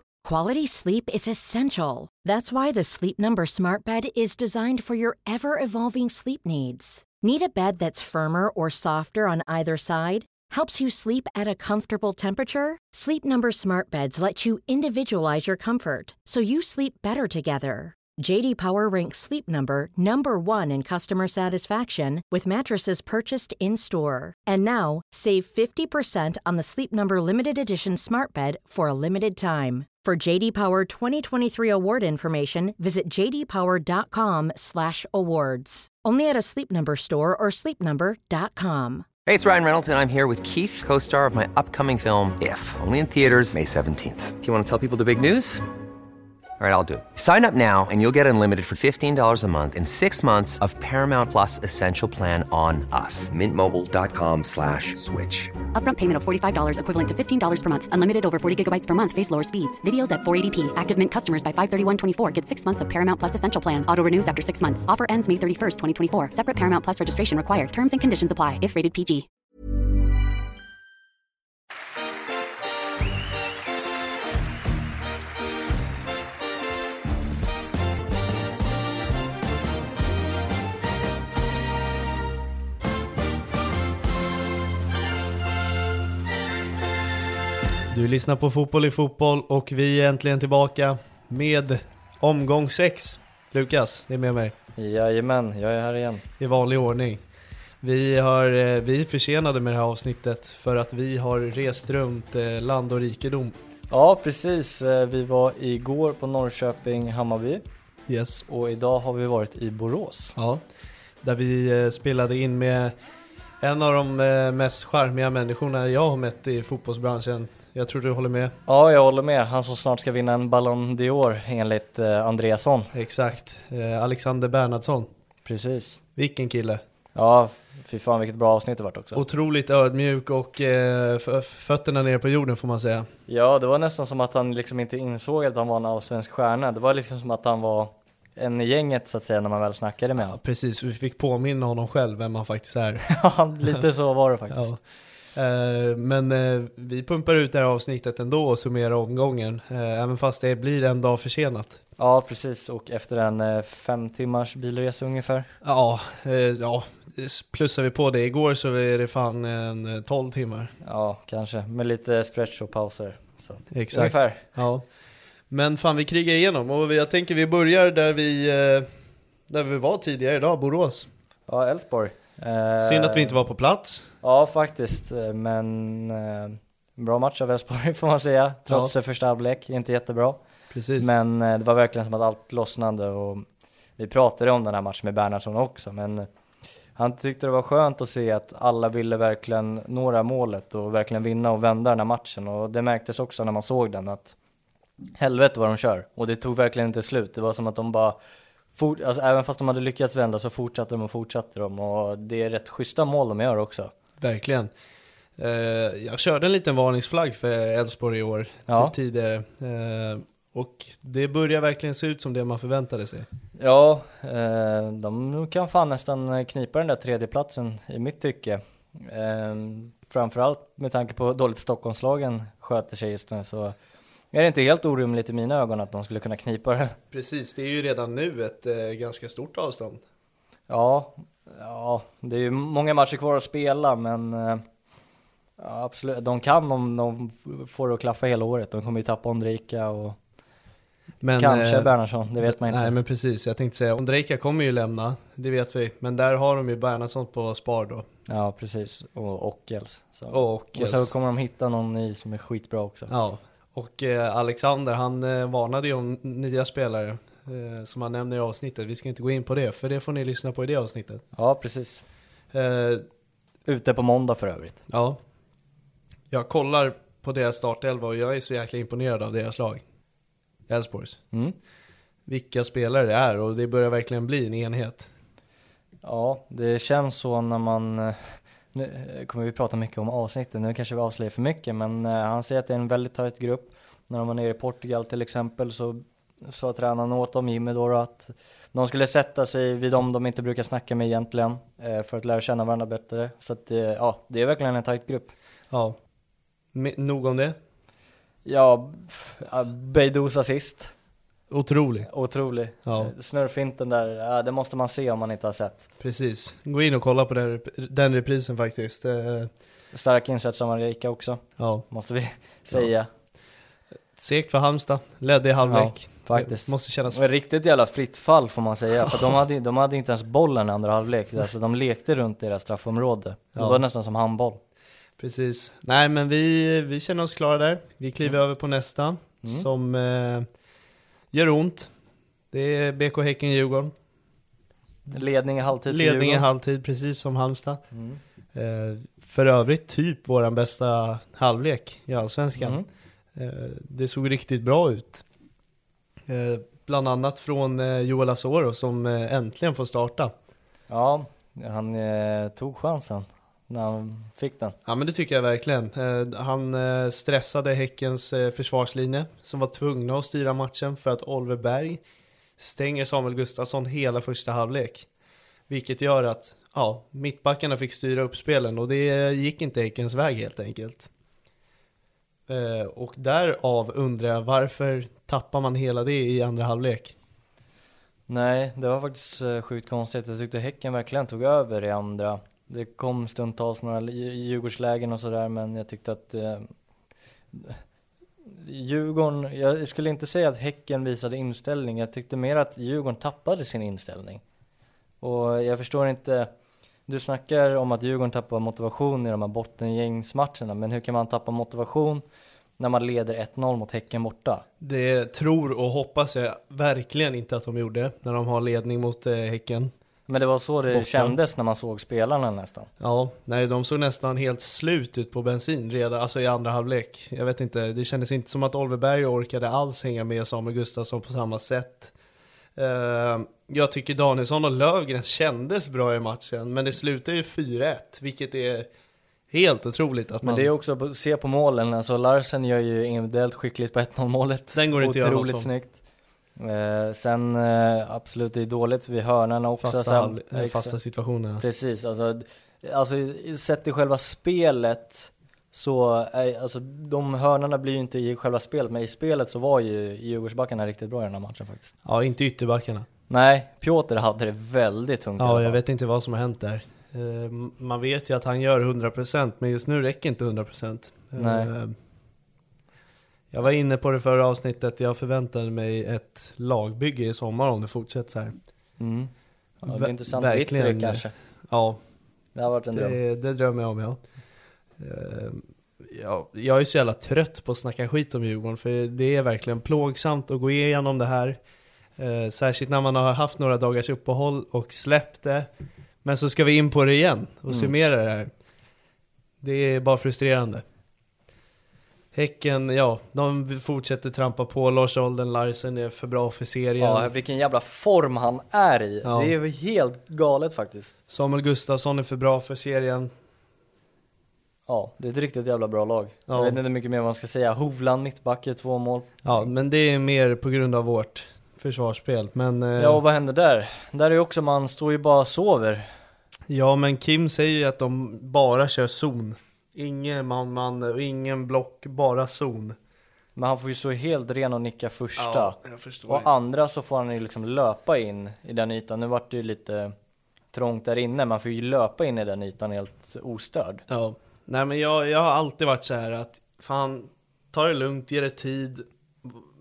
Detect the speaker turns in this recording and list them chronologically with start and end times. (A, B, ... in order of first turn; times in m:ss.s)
0:00.2-0:39.0 A
0:39.2-0:45.6 B
0:46.6-0:55.5 B
0:55.7-1:09.3 C
1:27.9-1:34.6 D
1:34.8-1:36.2 E
1:36.4-1:37.2 D
1:37.8-1:43.5 D
1:43.9-1:47.6 E
1:48.1-1:48.4 D
1:48.5-1:50.3 E
1:50.4-1:50.6 D
1:51.2-1:52.9 D
1:53.6-1:58.5 D
1:58.7-2:02.9 E
2:02.9-2:05.1 D
2:05.4-2:06.0 E
2:06.2-2:06.8 D
2:07.1-2:09.2 E
2:09.1-2:13.1 D
2:13.3-2:20.4 E
2:20.3-2:23.1 D
2:23.1-2:24.7 E
2:24.5-2:24.8 D
2:25.3-2:31.8 D
2:32.0-2:35.5 E
2:35.6-2:40.7 D
2:40.8-2:44.5 E
2:43.7-2:44.8 D
2:45.5-2:48.9 D
2:49.5-2:51.1 D
2:51.5-2:53.4 E
2:52.8-2:54.1 D
2:54.2-3:00.4 E
3:00.7-3:01.1 D
3:01.0-3:03.5 E
3:04.0-3:06.3 E
3:07.0-3:14.4 E
3:15.2-3:18.2 E
3:18.7-3:23.9 E
3:24.2-3:24.7 D
3:25.4-3:33.3 D
3:28.7-3:28.9 E
3:33.6-3:43.8 E
3:44.3-3:47.0 E
3:47.1-3:50.0 D
3:50.7-3:54.6 E
3:55.6-4:00.2 E
4:01.2-4:08.1 D
4:01.4-4:02.9 E
4:08.3-4:13.1 E
4:10.3-4:11.1 D
4:13.1-4:21.2 D
4:21.3-4:22.0 E
4:22.5-4:23.0 D
4:23.6-4:24.8 E
4:24.9-4:25.2 D
4:26.3-4:29.8 D
4:30.7-4:31.2 D
4:32.3-4:35.1 D
4:36.0-4:55.3 E
4:55.7-4:56.0 D
4:56.7-4:57.6 D
4:58.4-5:00.9 E
5:01.5-5:02.1 D
5:02.1-5:05.9 E
5:02.8-5:03.1 D
5:06.0-5:09.5 D
5:09.9-5:13.1 E
5:11.6-5:11.8 D
5:14.2-5:17.2 D
5:15.6-5:24.6 E
5:25.2-5:30.5 D
5:31.3-5:31.9 D
5:32.5-5:33.9 D
5:35.1-5:36.4 E
5:35.9-5:37.8 D
5:37.9-5:38.2 E
5:38.6-5:42.8 D
5:42.6-5:42.9 E
5:43.3-5:45.2 D
5:46.3-5:50.3 D
5:50.9-5:54.8 E
5:54.9-6:02.0 D
6:02.6-6:05.1 D
6:05.7-6:11.1 D
6:12.5-6:17.1 D
6:18.3-6:26.7 E
6:27.5-6:27.8 E
6:28.5-6:34.4 E
6:35.2-6:36.5 E
6:37.1-6:42.2 E
6:42.8-6:44.6 E
6:44.8-6:49.9 D
6:50.3-6:52.9 E
6:50.9-6:51.3 D
6:53.0-7:02.1 D
7:02.8-7:08.9 D
7:09.5-7:10.7 D
7:10.4-7:15.9 E
7:14.8-7:15.7 D
7:16.6-7:20.9 E
7:19.8-7:21.6 D
7:21.6-7:31.9 E
7:32.0-7:33.1 D
7:33.3-7:35.8 E
7:35.4-7:41.9 D
7:41.4-7:41.7 E
7:43.5-7:48.6 D
7:49.0-7:49.3 E
7:49.8-7:51.3 E
7:49.8-7:52.0 D
7:52.6-7:53.2 E
7:52.9-7:54.2 D
7:55.0-8:01.6 D
8:02.2-8:05.7 D
8:06.2-8:08.5 D
8:07.7-8:07.9 E
8:09.6-8:10.8 D
8:12.3-8:17.3 D
8:17.0-8:21.1 E
8:19.2-8:19.5 D
8:21.3-8:23.3 D
8:24.9-8:29.4 E
8:26.5-8:26.8 D
8:29.4-8:33.2 D
8:33.0-8:36.1 E
8:36.7-8:43.0 D
8:43.6-8:50.1 E
8:45.4-8:46.5 D
8:50.7-8:54.0 E
8:54.1-8:59.6 D